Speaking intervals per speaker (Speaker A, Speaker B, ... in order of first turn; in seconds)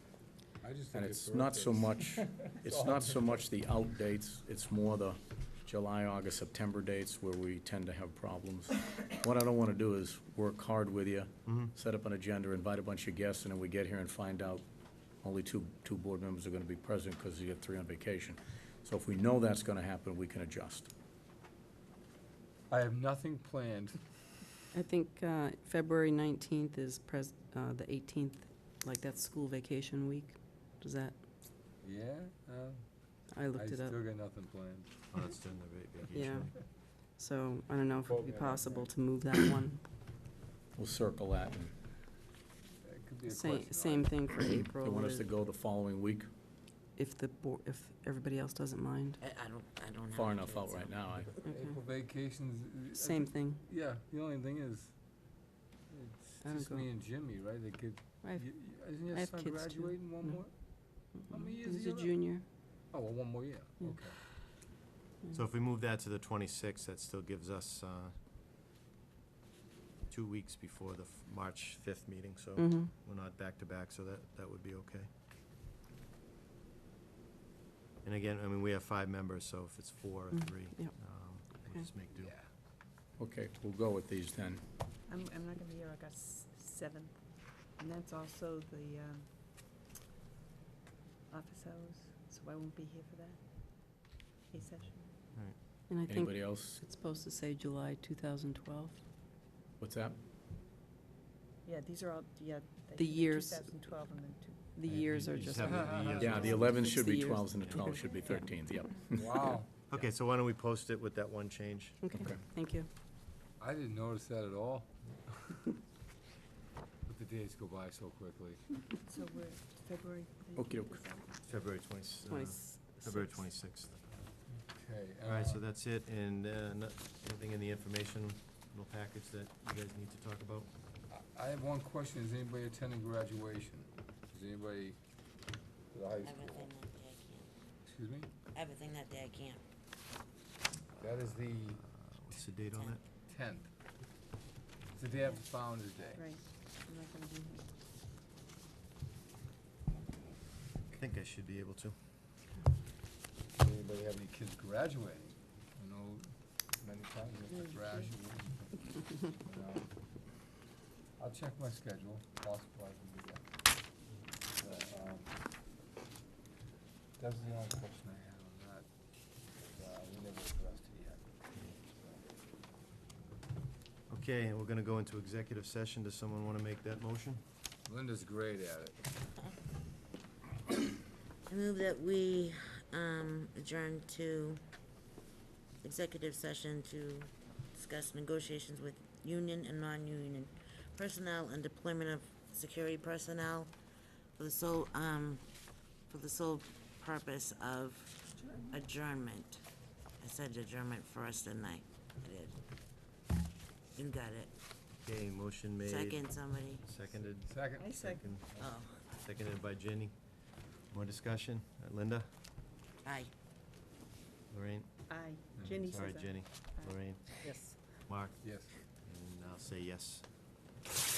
Speaker A: 0.6-3.4, 22.7-24.5, 31.8-35.0, 38.0-38.9, 42.8-44.2, 51.4-62.3, 62.9-64.2, 82.1-82.5, 105.6-106.7, 109.1-109.7, 113.6-115.5, 117.0-118.6, 124.5-125.6, 131.1-135.0, 135.9-136.7, 137.8-138.3, 141.0-141.9, 143.2-143.7, 144.9-146.2, 153.5-160.5, 161.2-163.4, 164.5-165.4, 167.2-172.2, 177.8-179.0, 207.1-208.8, 215.5-216.1, 218.4-218.8
Speaker B: 0.9-20.9, 40.8-41.7, 44.7-46.3, 50.1-51.3, 83.2-84.6, 96.1-96.8, 99.8-100.2, 106.2-110.0, 112.1-112.4, 120.5-121.0
Speaker C: 11.5-11.7, 35.1-36.5, 65.3-68.2, 70.1-75.1, 78.0-82.3, 95.3-95.6, 104.8-106.9, 109.9-112.1, 121.5-124.1, 125.2-130.7, 141.8-143.0, 150.9-151.9, 174.1-177.4, 205.0-212.3, 214.5-215.1, 215.8-220.5
Speaker D: 24.7-31.2, 33.3-34.1, 36.1-39.8, 43.3-45.3, 47.0-49.2, 51.4-51.8, 52.9-53.6, 56.4-56.9, 58.2-62.5, 63.8-64.6, 72.6-72.9, 80.3-81.0, 81.5-81.9, 95.9-99.0, 103.0-103.7, 104.7-105.9, 106.8-108.2, 112.0-112.9, 122.2-123.4, 217.4-217.8
Speaker E: 49.2-51.4, 136.2-137.5, 138.5-139.6, 142.7-143.0, 181.5-184.6, 185.8-193.7, 194.4-195.4, 196.1-199.6, 200.2-202.6, 203.9-204.5, 205.8-206.8, 208.6-209.0, 213.0-213.3
Speaker F: 85.1-89.3, 91.3-95.1, 101.6-104.8, 106.3-106.8, 119.0-121.5, 146.1-147.7, 198.4-198.7, 207.8-208.4, 215.1-217.4